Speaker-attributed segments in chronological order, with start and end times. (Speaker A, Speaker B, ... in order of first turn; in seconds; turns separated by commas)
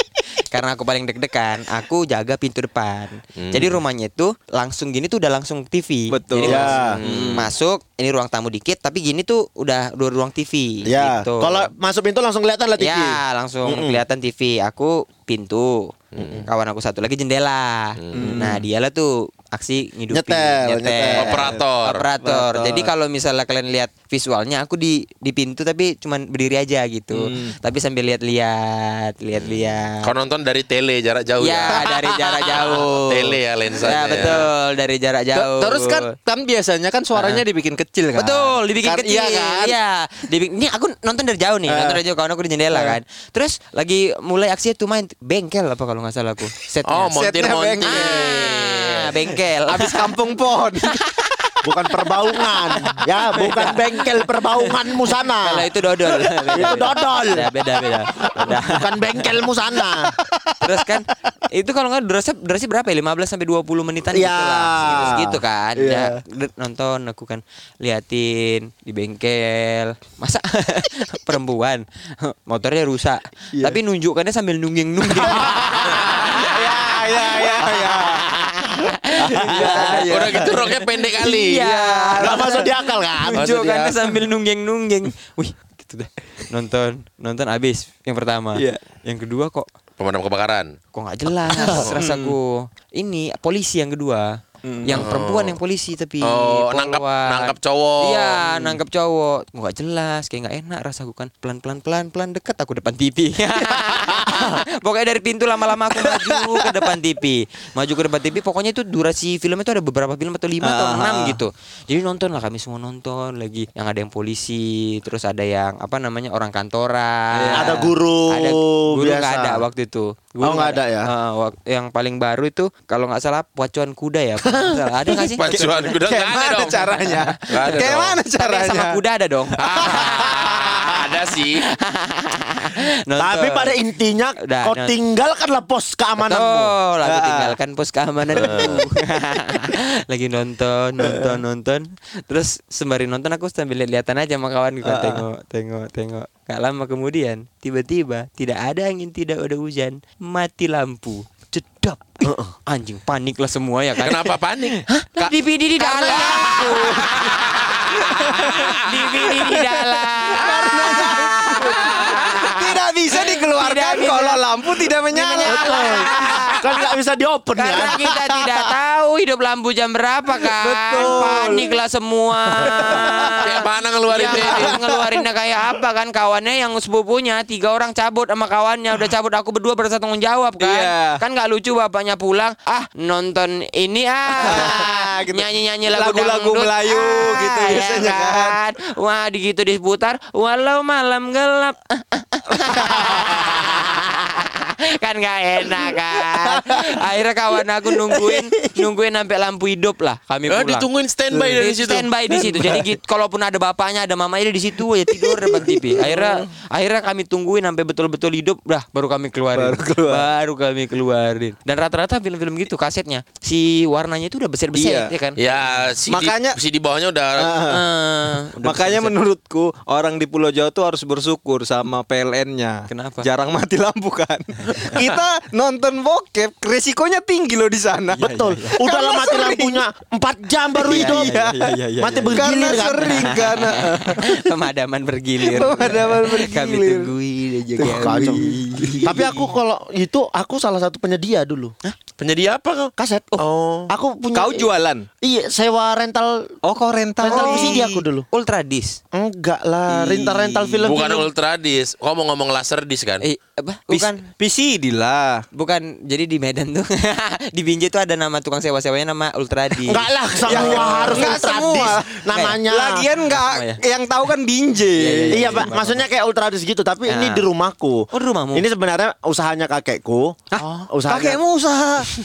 Speaker A: 0.5-11.7, Speaker B: 3.4-3.8, Speaker C: 6.1-7.5, Speaker B: 6.4-7.5, Speaker D: 6.4-7.0, Speaker D: 10.8-14.0, Speaker A: 12.8-30.1, Speaker B: 16.1-16.5, Speaker B: 18.0-18.4, Speaker C: 18.1-18.6, Speaker D: 18.1-18.5, Speaker D: 20.1-21.6, Speaker B: 21.2-22.1, Speaker C: 22.2-22.9, Speaker C: 27.1-27.6, Speaker B: 29.4-34.5, Speaker A: 31.4-36.1, Speaker C: 35.4-39.8, Speaker A: 37.1-37.4, Speaker A: 38.2-47.2, Speaker C: 41.7-42.0, Speaker C: 42.7-43.0, Speaker B: 46.9-48.4, Speaker C: 47.1-51.0, Speaker A: 47.9-50.2, Speaker A: 50.9-59.4, Speaker D: 51.6-55.7, Speaker C: 56.4-56.8, Speaker D: 56.5-57.5, Speaker D: 58.2-60.1, Speaker A: 60.6-76.5, Speaker D: 64.1-65.4, Speaker C: 65.8-66.2, Speaker C: 75.2-78.3, Speaker D: 75.4-76.1, Speaker D: 78.1-78.9, Speaker A: 78.6-80.6, Speaker C: 79.2-83.3, Speaker D: 79.4-79.9, Speaker B: 79.8-81.7, Speaker A: 81.2-89.7, Speaker D: 82.2-83.4, Speaker B: 83.4-84.0, Speaker C: 88.5-88.8, Speaker B: 90.0-90.8, Speaker A: 90.9-125.9, Speaker D: 91.5-91.9, Speaker C: 91.9-92.3, Speaker C: 94.6-95.1, Speaker B: 94.9-95.6, Speaker B: 96.2-98.5, Speaker D: 104.3-104.6, Speaker C: 106.0-106.7, Speaker C: 110.6-111.4, Speaker C: 117.3-117.9, Speaker D: 117.6-119.6, Speaker D: 120.4-121.1, Speaker B: 125.1-127.0, Speaker C: 125.5-129.0, Speaker A: 127.0-131.0, Speaker B: 127.5-128.2, Speaker B: 129.6-131.7, Speaker C: 129.8-130.4, Speaker A: 131.6-133.7, Speaker D: 133.2-136.8, Speaker A: 134.4-134.9, Speaker A: 136.2-157.4, Speaker C: 137.1-137.6, Speaker B: 138.3-138.8, Speaker C: 141.1-141.4, Speaker C: 144.8-145.2, Speaker D: 152.2-152.5, Speaker B: 154.0-154.8, Speaker C: 155.2-166.6, Speaker B: 156.6-158.9, Speaker A: 158.3-166.7, Speaker D: 165.4-168.1, Speaker A: 167.6-200.9, Speaker C: 170.4-171.8, Speaker C: 172.6-173.4, Speaker D: 172.8-173.3, Speaker B: 173.4-174.8, Speaker C: 174.2-175.0, Speaker C: 180.6-181.2, Speaker C: 184.4-188.6, Speaker C: 192.8-193.2, Speaker C: 196.4-196.9, Speaker C: 198.1-198.8, Speaker B: 200.5-202.1, Speaker A: 201.4-215.4, Speaker C: 202.3-202.8, Speaker C: 205.2-206.5, Speaker C: 209.6-210.3, Speaker C: 214.7-215.1, Speaker B: 215.4-217.6, Speaker C: 216.1-216.6, Speaker C: 217.4-217.8, Speaker A: 217.7-219.2, Speaker C: 218.6-229.8, Speaker A: 222.9-223.3, Speaker D: 228.1-231.4, Speaker A: 230.8-231.6, Speaker C: 230.8-234.4, Speaker D: 232.0-233.3, Speaker A: 233.1-239.5, Speaker C: 235.4-237.1, Speaker C: 237.8-239.1, Speaker D: 237.8-241.8, Speaker B: 242.2-243.9, Speaker D: 243.0-244.7, Speaker C: 244.3-245.1, Speaker D: 245.2-246.5, Speaker C: 246.6-247.9, Speaker D: 247.2-248.2, Speaker A: 247.3-249.0, Speaker D: 249.1-251.3, Speaker A: 250.1-250.8, Speaker B: 250.8-253.2, Speaker A: 253.2-254.3, Speaker C: 253.9-255.4, Speaker A: 255.5-261.6, Speaker D: 259.9-263.1, Speaker C: 260.4-266.0, Speaker A: 262.3-262.6, Speaker A: 263.2-263.8, Speaker A: 265.0-265.9, Speaker D: 265.3-271.4, Speaker A: 267.1-267.5, Speaker A: 268.1-268.7, Speaker C: 270.5-272.1, Speaker A: 270.6-270.9